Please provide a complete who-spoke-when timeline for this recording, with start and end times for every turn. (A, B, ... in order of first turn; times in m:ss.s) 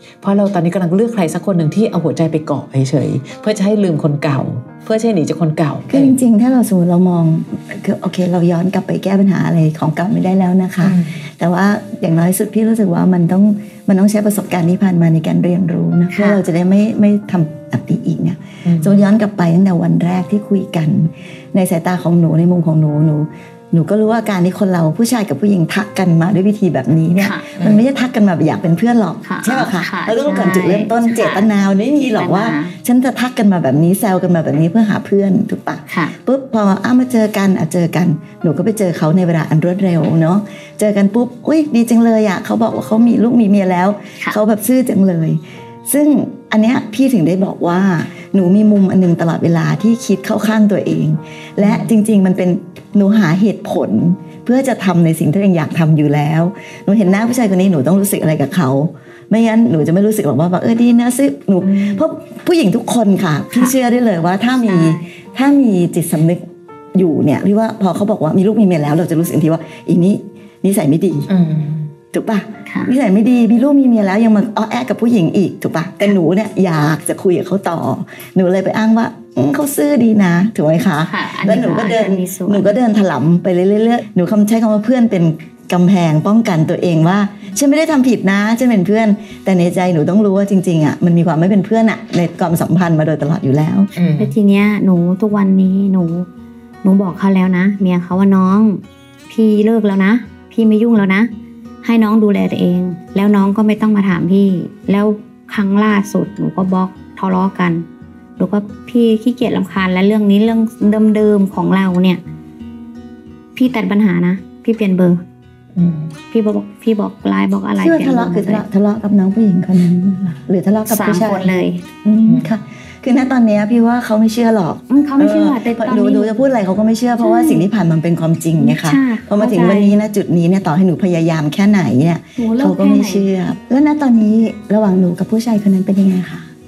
0:00.2-0:06.2 A
0:05.9-1:06.4 B
0:10.8-0:11.2 A
0:16.1-0:16.4 C
0:18.6-0:19.0 A
0:27.2-0:27.6 C
0:29.2-0:31.5 C
0:32.1-0:32.8 C
0:35.9-0:36.2 C
0:51.6-0:51.9 A
1:04.6-1:05.0 C
1:07.0-1:11.3 B
1:11.3-1:11.9 A
1:12.1-1:33.9 B
1:12.7-1:12.9 C
1:21.1-1:22.7 C
1:34.0-1:34.3 A
1:34.2-1:36.3 C
1:36.8-1:41.3 C
1:41.8-1:47.9 C
1:48.4-1:52.2 C
1:53.6-1:55.2 C
1:55.8-1:56.1 A
1:56.3-1:58.6 C
1:57.8-2:01.5 B
2:00.9-2:01.8 C
2:02.0-2:16.5 B
2:02.3-2:02.5 A
2:04.9-2:06.3 C
2:07.2-2:07.6 C
2:08.6-2:10.0 C
2:12.4-2:13.3 C